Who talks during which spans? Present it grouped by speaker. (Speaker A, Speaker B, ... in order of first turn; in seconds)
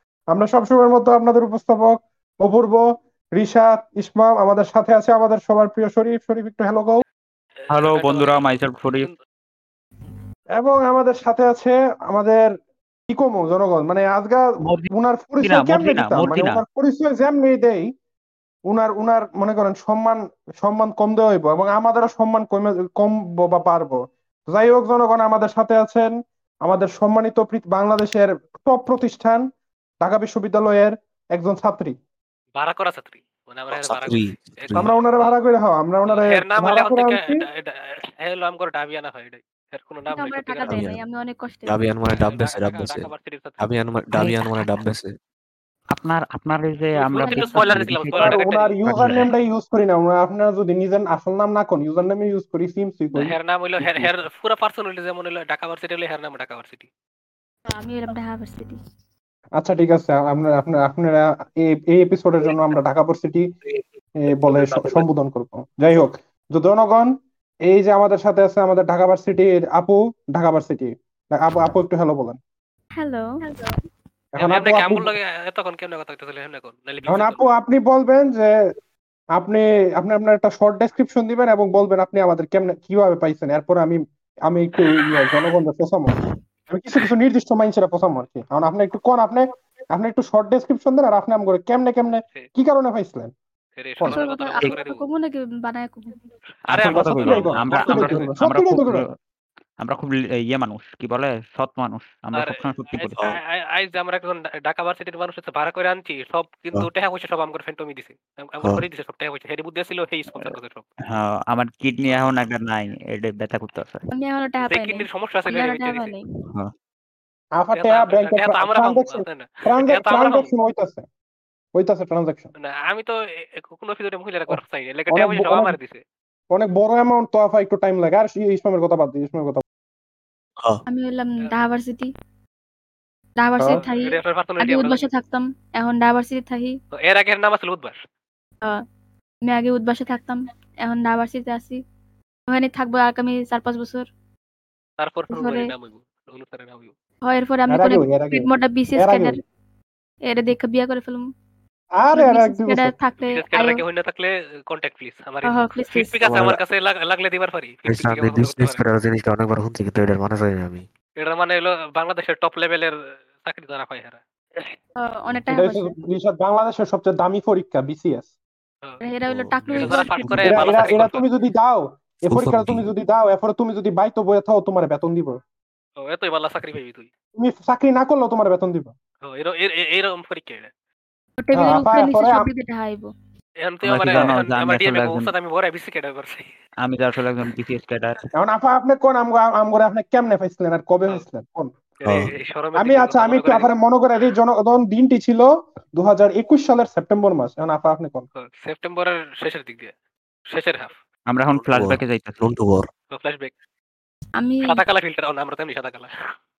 Speaker A: 0.3-2.8, 3.4-7.0, 10.6-12.5, 13.1-17.9, 18.7-26.1, 26.6-29.4, 30.0-31.9, 34.8-37.4, 48.1-53.3, 59.6-63.5, 64.2-67.1, 67.7-72.4, 74.3-75.2, 77.1-78.5, 79.4-86.1, 86.7-93.3, 96.9-99.0, 117.5-121.0, 121.7-122.5, 125.1-125.8, 126.5-129.6, 147.7-149.4, 151.9-152.9, 165.5-168.3, 170.4-175.4, 177.4-178.9, 181.5-182.5, 188.3-191.7, 192.8-198.2
Speaker B: 7.6-9.1, 32.5-35.3, 36.1-40.9, 42.1-43.6, 47.0-48.8, 53.1-56.9, 74.4-77.4, 93.8-95.0, 96.7-98.3, 102.3-110.8, 114.7-116.1, 117.7-120.5, 122.6-126.0, 131.4-131.7, 133.8-135.0, 136.9-138.0, 145.0-146.9, 153.3-158.8, 161.2-164.7, 169.8-171.2, 176.0-177.1, 179.2-180.7, 183.6-186.5, 192.0-193.7, 198.4-199.9, 200.5-200.9, 203.1-203.5, 204.6-206.1
Speaker C: 7.7-9.1, 14.6-14.9, 15.4-16.6, 45.9-48.4, 96.7-99.1, 99.8-103.2, 111.0-114.0, 183.8-185.3, 186.8-188.2, 201.3-202.4
Speaker D: 33.7-34.9, 40.7-41.0, 41.6-45.1, 47.6-48.1, 48.9-49.3, 53.8-54.1, 156.2-156.6, 157.8-160.8, 169.3-170.8, 172.3-172.9, 192.0-192.3, 201.5-202.9
Speaker E: 40.1-41.8, 47.2-47.7, 57.7-58.8, 73.0-73.7, 94.1-96.1, 114.1-116.2, 130.9-132.1, 133.4-136.8, 139.4-141.8, 142.5-144.1, 145.3-145.7, 147.2-149.4, 150.2-151.2, 152.1-153.8, 155.4-156.2, 165.0-165.9, 169.0-170.4, 181.4-183.1, 204.4-204.8